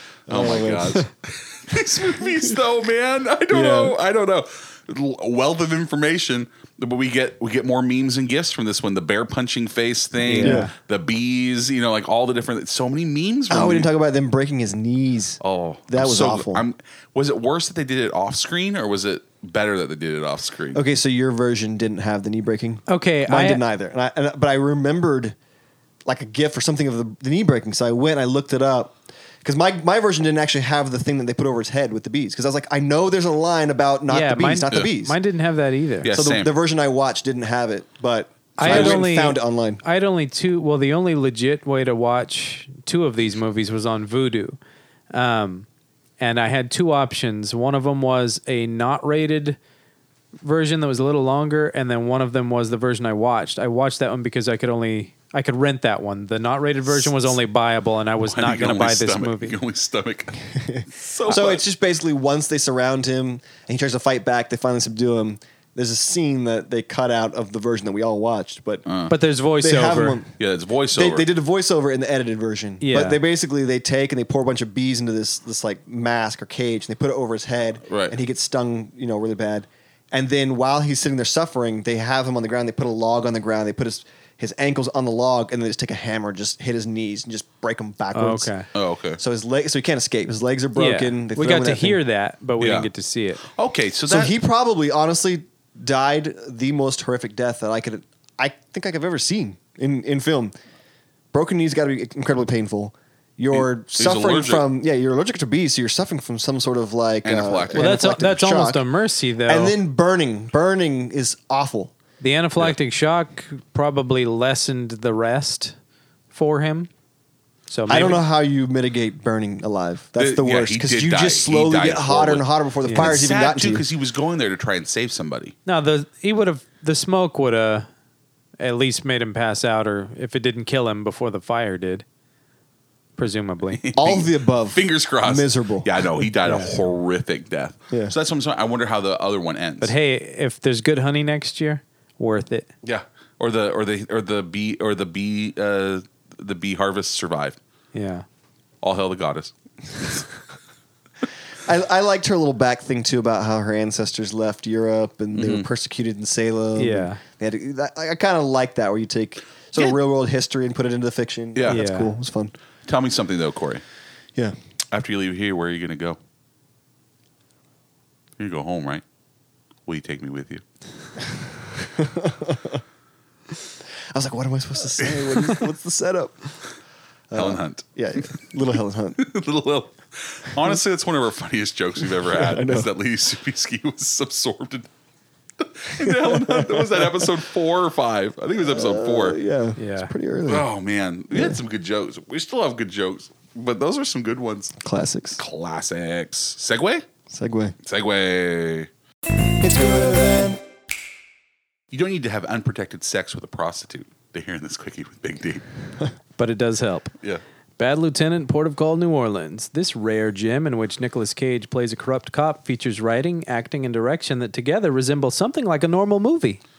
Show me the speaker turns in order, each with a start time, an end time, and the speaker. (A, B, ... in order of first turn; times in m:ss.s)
0:00.3-0:01.0 A
0:00.3-0:13.9 B
0:02.2-0:02.5 A
0:03.5-0:03.9 A
0:10.2-0:10.7 C
0:10.3-0:10.7 A
0:13.5-0:16.6 A
0:15.4-0:20.8 B
0:20.7-0:25.3 A
0:22.9-0:23.6 C
0:26.0-0:35.2 A
0:34.1-0:36.1 C
0:36.0-0:36.5 B
0:36.1-0:39.8 A
0:38.6-0:44.6 C
0:38.6-0:39.0 B
0:45.1-0:45.7 C
0:46.2-0:49.6 C
0:50.4-0:59.6 C
0:56.9-0:57.3 B
0:58.2-1:01.6 B
1:00.7-1:08.8 A
1:08.8-1:09.1 B
1:09.1-1:10.2 C
1:09.6-1:10.3 A
1:10.4-1:11.3 B
1:10.9-1:28.5 A
1:12.8-1:13.2 C
1:17.9-1:18.2 B
1:28.1-1:28.6 C
1:28.7-1:29.2 B
1:29.2-1:32.0 A
1:30.8-1:33.4 C
1:32.6-1:32.9 B
1:33.5-1:34.3 B
1:34.1-1:40.5 A
1:41.3-1:48.8 A
1:43.5-1:44.6 B
1:47.2-1:48.0 B
1:47.7-1:49.8 C
1:49.4-1:51.9 A
1:52.2-1:55.7 C
1:56.3-1:56.9 C
1:57.7-1:58.2 C
1:57.9-2:03.8 A
2:00.2-2:05.5 B
2:02.9-2:03.1 C
2:05.6-2:07.8 C
2:08.6-2:12.0 C
2:13.2-2:13.8 C
2:13.7-2:19.9 B
2:14.0-2:15.9 A
2:16.4-2:16.7 C
2:19.8-2:22.7 C
2:22.8-2:27.6 B
2:27.9-2:28.2 C
2:28.8-2:29.5 B
2:31.6-2:42.5 A
2:35.3-2:35.7 B
2:36.8-2:37.2 C
2:41.5-2:41.8 B
2:41.7-2:42.1 C
2:42.8-2:43.8 B
2:44.9-2:46.2 B
2:48.4-2:49.0 B
2:49.8-2:50.6 B
2:51.7-2:52.8 A
2:54.1-2:56.4 A
2:55.0-2:55.6 B
2:57.3-2:59.2 A
2:57.3-2:58.3 B
2:59.2-3:04.9 B
3:02.2-3:02.9 A
3:05.6-3:09.4 B
3:06.0-3:07.3 A
3:08.7-3:10.6 A
3:09.8-3:10.1 C
3:10.5-3:14.8 B
3:11.3-3:11.6 A
3:14.8-3:15.4 A
3:15.3-3:17.0 B
3:17.3-3:17.7 A
3:17.8-3:18.9 B
3:19.6-3:20.6 A
3:21.9-3:25.6 B
3:26.4-3:27.1 C
3:27.8-3:36.6 C